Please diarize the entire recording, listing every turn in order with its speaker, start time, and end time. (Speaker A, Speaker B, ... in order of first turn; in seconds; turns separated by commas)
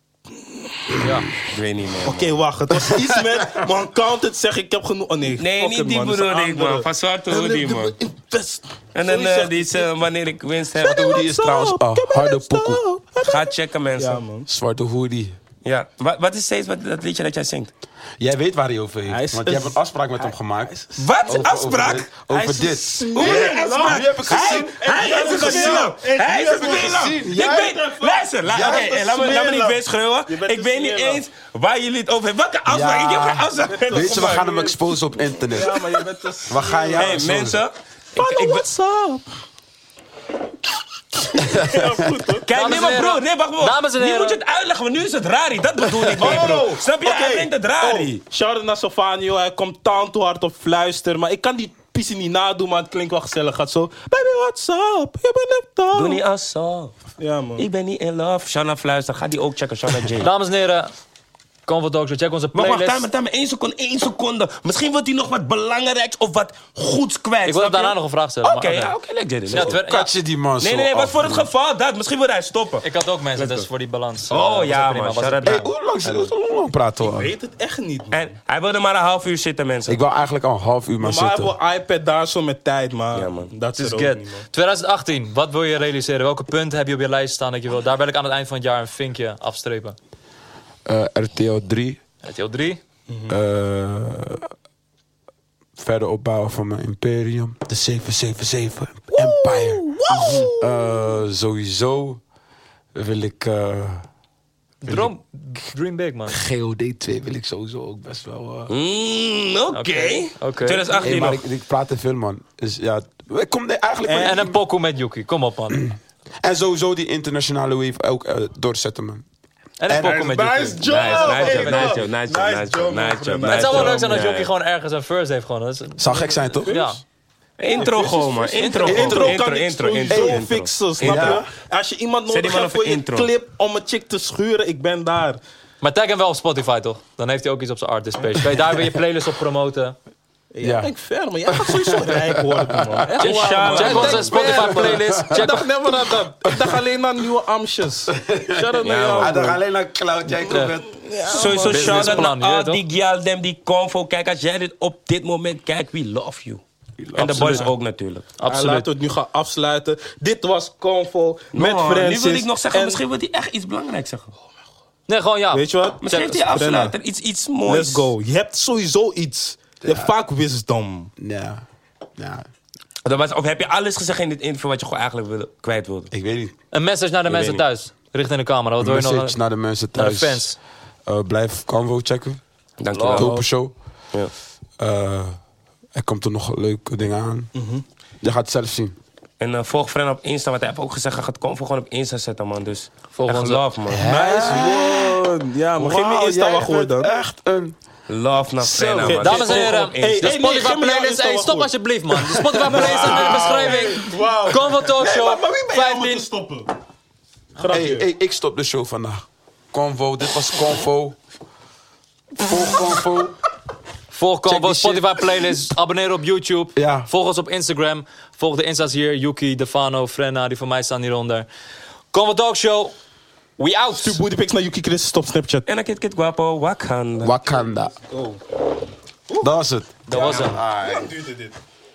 Speaker A: 1.0-1.3, Speaker B: 1.4-2.4, Speaker C: 2.0-9.9, Speaker D: 2.9-3.4, Speaker B: 5.3-8.0, Speaker B: 8.9-11.1, Speaker D: 10.8-12.8, Speaker C: 10.8-14.5, Speaker B: 13.2-14.2, Speaker D: 14.5-15.4, Speaker B: 15.6-17.7, Speaker D: 18.2-27.8, Speaker C: 19.1-21.5, Speaker B: 21.0-34.4, Speaker C: 22.9-31.2, Speaker D: 28.5-29.0, Speaker D: 32.7-37.6, Speaker C: 33.6-34.8, Speaker C: 35.5-37.3, Speaker B: 36.9-38.6, Speaker C: 38.2-39.2, Speaker C: 41.2-42.8, Speaker D: 41.4-42.1, Speaker B: 42.4-48.2, Speaker A: 42.5-44.4, Speaker D: 46.0-46.6, Speaker C: 46.2-56.2, Speaker B: 55.9-57.0, Speaker C: 57.2-57.6, Speaker B: 57.6-60.3, Speaker A: 60.2-60.9, Speaker A: 61.7-63.0, Speaker B: 62.5-69.8, Speaker A: 67.5-69.0, Speaker A: 69.5-70.1, Speaker D: 69.5-71.5, Speaker B: 70.6-72.8, Speaker A: 72.8-75.7, Speaker B: 73.4-73.7, Speaker B: 74.3-76.3, Speaker D: 75.4-77.3, Speaker C: 77.0-78.3, Speaker B: 78.1-80.0, Speaker D: 79.9-81.5, Speaker C: 81.0-84.5, Speaker B: 83.1-83.5, Speaker A: 83.8-90.0, Speaker D: 90.9-92.0, Speaker A: 92.2-92.8, Speaker C: 93.1-93.4, Speaker D: 93.3-94.5, Speaker D: 95.8-100.0, Speaker C: 99.1-101.0, Speaker B: 100.1-100.5, Speaker D: 100.5-102.2, Speaker D: 103.0-104.1, Speaker A: 104.8-106.4, Speaker D: 104.8-105.6, Speaker D: 106.3-108.7, Speaker B: 108.7-111.4, Speaker A: 109.7-111.0, Speaker D: 111.0-114.6, Speaker A: 114.1-115.9, Speaker D: 115.7-119.2, Speaker A: 119.8-122.0, Speaker D: 119.9-120.2, Speaker C: 119.9-124.2, Speaker B: 120.8-124.5, Speaker A: 123.4-127.0, Speaker D: 126.0-127.0, Speaker B: 127.6-131.4, Speaker C: 127.7-135.4, Speaker A: 128.6-129.3, Speaker D: 128.8-129.4, Speaker D: 130.1-131.5, Speaker B: 132.3-133.3, Speaker A: 135.8-140.0, Speaker D: 138.4-139.0, Speaker C: 140.5-149.6, Speaker D: 140.6-140.9, Speaker D: 141.5-143.1, Speaker B: 143.2-144.7, Speaker A: 143.2-145.7, Speaker D: 144.3-145.6, Speaker D: 146.5-146.8, Speaker D: 148.1-151.0, Speaker B: 148.8-149.6, Speaker C: 150.3-152.3, Speaker A: 150.5-150.8, Speaker B: 151.3-156.6, Speaker A: 151.6-152.8, Speaker D: 157.0-157.7, Speaker B: 157.2-158.3, Speaker A: 157.3-157.7, Speaker A: 158.4-158.9, Speaker C: 158.5-163.0, Speaker B: 161.5-164.3, Speaker A: 165.1-166.4, Speaker C: 165.5-166.9, Speaker B: 166.0-168.1, Speaker C: 167.7-171.1, Speaker D: 169.8-170.1, Speaker D: 171.2-171.6, Speaker D: 172.2-172.5, Speaker B: 173.1-176.1, Speaker D: 176.1-176.5, Speaker A: 176.7-179.4, Speaker B: 177.3-177.6, Speaker D: 178.8-180.5, Speaker A: 179.9-180.6, Speaker D: 181.1-182.4, Speaker B: 182.8-183.4, Speaker A: 182.9-183.4, Speaker D: 183.1-183.7, Speaker D: 184.8-185.4, Speaker D: 185.9-187.5, Speaker C: 187.6-187.8, Speaker D: 188.2-188.9, Speaker B: 189.4-194.1, Speaker A: 193.1-193.6, Speaker D: 193.9-197.8, Speaker C: 193.9-197.1, Speaker B: 198.1-200.4, Speaker D: 198.6-199.4, Speaker C: 199.0-206.7, Speaker A: 199.2-206.3, Speaker D: 202.5-203.4, Speaker C: 207.6-208.1, Speaker D: 207.7-211.2, Speaker D: 212.4-213.4, Speaker A: 214.1-221.5, Speaker D: 214.5-215.2, Speaker D: 216.8-217.1, Speaker A: 222.1-222.9, Speaker A: 223.6-224.2, Speaker C: 223.9-225.7, Speaker B: 225.7-227.3, Speaker D: 227.2-227.9, Speaker C: 228.0-228.4, Speaker D: 229.4-231.1, Speaker A: 230.1-230.6, Speaker C: 230.1-231.6, Speaker B: 230.2-230.5